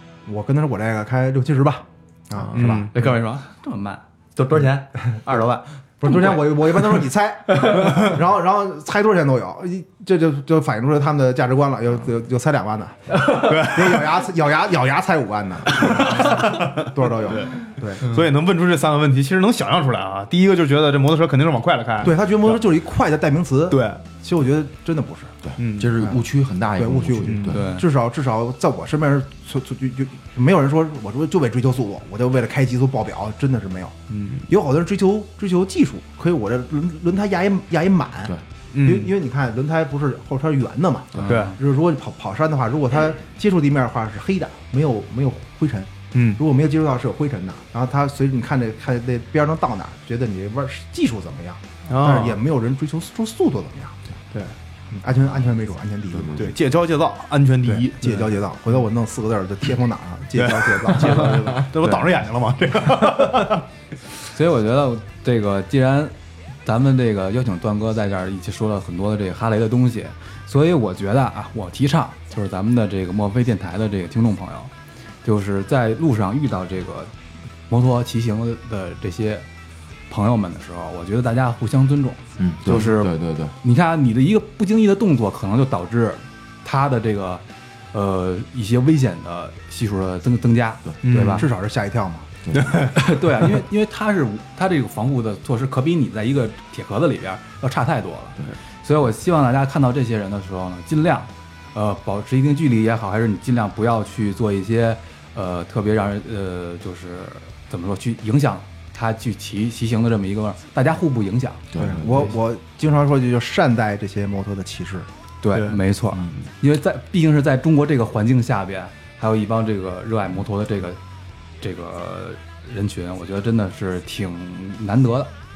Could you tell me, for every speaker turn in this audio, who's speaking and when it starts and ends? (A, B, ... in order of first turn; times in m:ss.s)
0:00.2-0:02.9 A
0:02.5-0:02.9 B
0:02.9-0:06.4 C
0:06.0-0:18.1 A
0:13.4-0:13.9 B
0:15.9-0:22.2 B
0:22.0-0:25.4 A
0:23.7-0:24.0 B
0:25.4-0:27.6 D
0:26.8-0:54.0 A
0:27.5-0:27.8 C
0:41.2-0:41.5 B
0:51.9-0:52.3 B
0:54.9-0:56.6 A
0:56.4-0:58.3 B
0:57.7-1:01.8 A
1:00.4-1:03.6 B
1:04.3-1:06.1 C
1:06.6-1:14.7 C
1:15.2-1:17.1 C
1:17.7-1:19.4 C
1:20.1-1:31.5 C
1:22.4-1:23.5 D
1:31.1-1:31.5 B
1:31.2-1:32.4 A
1:32.4-1:32.9 D
1:32.8-1:51.6 C
1:51.7-1:52.3 D
1:51.7-1:55.1 A
1:55.4-2:01.0 C
2:01.6-2:05.3 C